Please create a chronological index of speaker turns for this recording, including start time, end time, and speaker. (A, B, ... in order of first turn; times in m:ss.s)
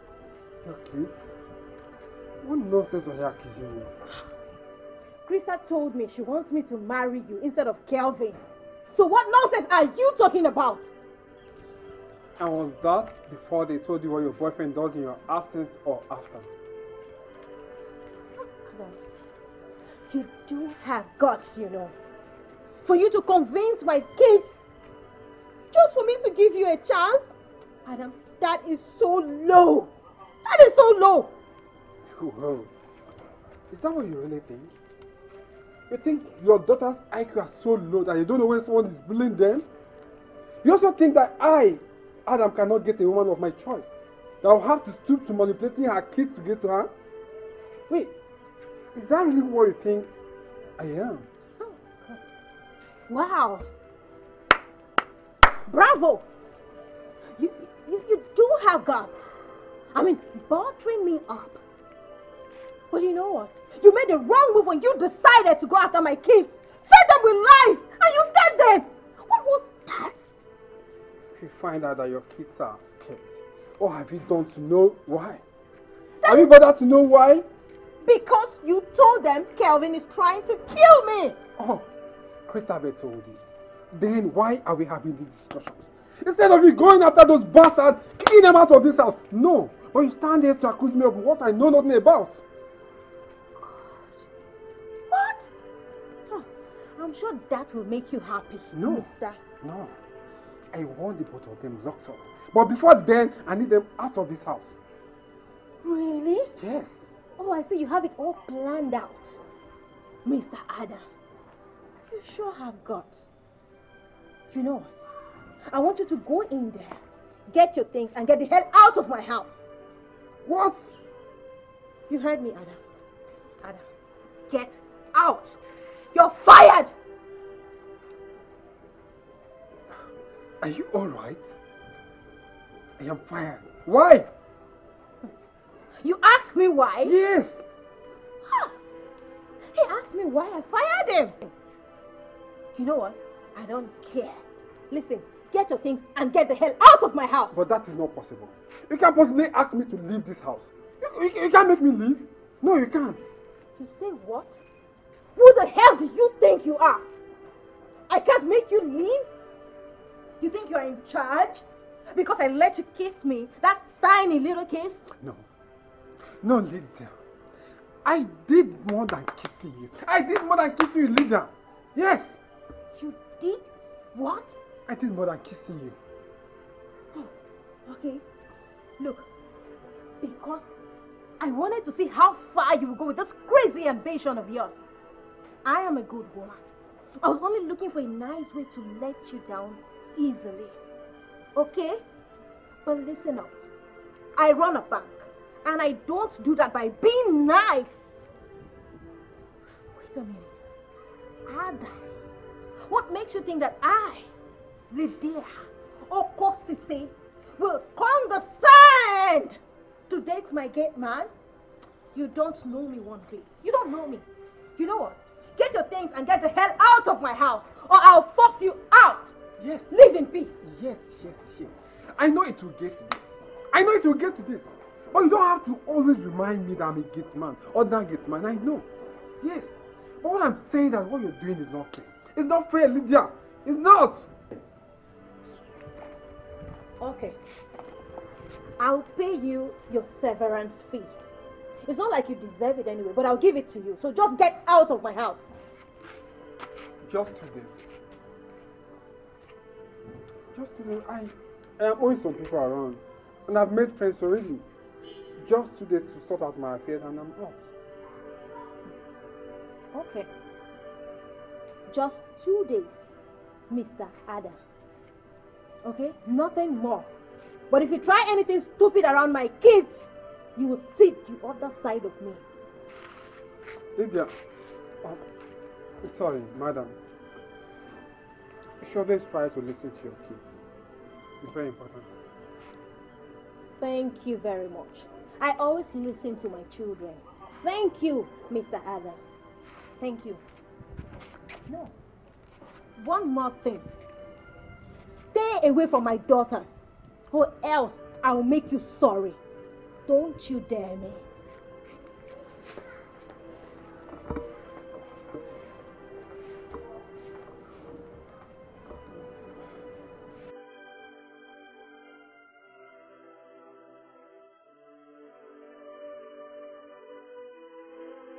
0:00.6-0:01.3 A
0:02.4-0:03.9 A
0:05.2-0:08.4 B
0:08.9-0:10.9 B
0:12.4-0:16.5 A
0:18.4-0:19.1 B
0:20.1-0:21.9 B
0:22.8-0:24.5 B
0:25.7-0:27.3 B
0:27.8-0:29.9 B
0:30.4-0:31.3 B
0:32.1-0:32.7 A
0:33.7-0:34.7 A
0:35.9-0:39.6 A
0:40.6-0:43.9 A
0:44.4-0:46.9 A
0:48.9-0:50.1 A
0:50.8-0:51.3 A
0:51.6-0:52.3 B
0:53.1-0:53.7 B
0:55.7-0:56.2 B
0:57.4-0:59.3 B
0:59.9-1:01.6 B
1:02.9-1:10.2 B
1:11.3-1:15.4 A
1:16.2-1:16.5 B
1:16.2-1:17.4 A
1:18.0-1:21.4 B
1:21.6-1:21.8 A
1:22.5-1:32.4 A
1:33.6-1:34.2 B
1:35.1-1:35.5 B
1:36.3-1:39.4 B
1:38.7-1:40.0 A
1:40.7-1:44.7 A
1:45.8-1:46.5 B
1:46.6-1:47.1 A
1:47.4-1:49.4 B
1:50.2-1:51.1 B
1:52.1-1:53.2 B
1:54.5-1:55.0 B
1:55.7-1:59.6 B
2:00.4-2:00.9 A
2:02.1-2:02.8 B
2:04.5-2:05.6 B
2:06.1-2:06.9 B
2:10.6-2:11.5 A
2:13.0-2:14.3 A
2:15.9-2:17.2 B
2:17.0-2:17.6 A
2:18.4-2:18.7 B
2:19.7-2:21.5 B
2:22.7-2:27.5 B
2:27.5-2:33.3 A
2:33.8-2:34.6 B
2:35.4-2:37.0 B
2:38.1-2:39.3 B
2:40.4-2:45.0 B
2:45.1-2:45.4 A
2:46.2-2:47.1 A
2:48.0-2:52.4 A
2:53.0-2:54.6 B
2:54.8-2:56.0 A
2:57.8-2:58.2 B
2:59.0-2:59.3 B
3:00.2-3:00.7 B
3:01.4-3:04.8 B
3:05.6-3:06.6 B
3:07.2-3:10.8 B
3:11.5-3:12.0 B
3:12.8-3:13.6 B
3:14.4-3:18.1 B
3:19.9-3:20.6 B
3:21.5-3:22.0 B
3:22.8-3:24.3 B
3:24.9-3:31.3 B
3:32.1-3:34.2 B
3:34.8-3:39.3 B
3:39.6-3:40.0 A
3:39.9-3:40.6 B
3:40.6-3:48.9 A
3:49.4-3:54.3 A
3:57.0-3:57.4 B
3:58.8-4:01.1 B
4:01.8-4:05.5 B
4:07.0-4:07.8 A
4:10.5-4:14.6 A
4:15.4-4:17.7 A
4:19.9-4:20.3 B
4:21.9-4:23.1 B
4:23.7-4:24.6 B
4:25.8-4:27.1 B
4:27.7-4:32.4 B
4:34.0-4:34.3 A
4:36.0-4:37.0 A
4:38.8-4:40.6 A
4:41.4-4:42.2 A
4:43.8-4:49.2 B
4:50.0-4:50.4 B
4:51.7-4:51.9 B
4:53.0-4:53.8 B
4:55.3-4:56.8 B
4:57.3-4:59.4 B
5:00.1-5:01.2 B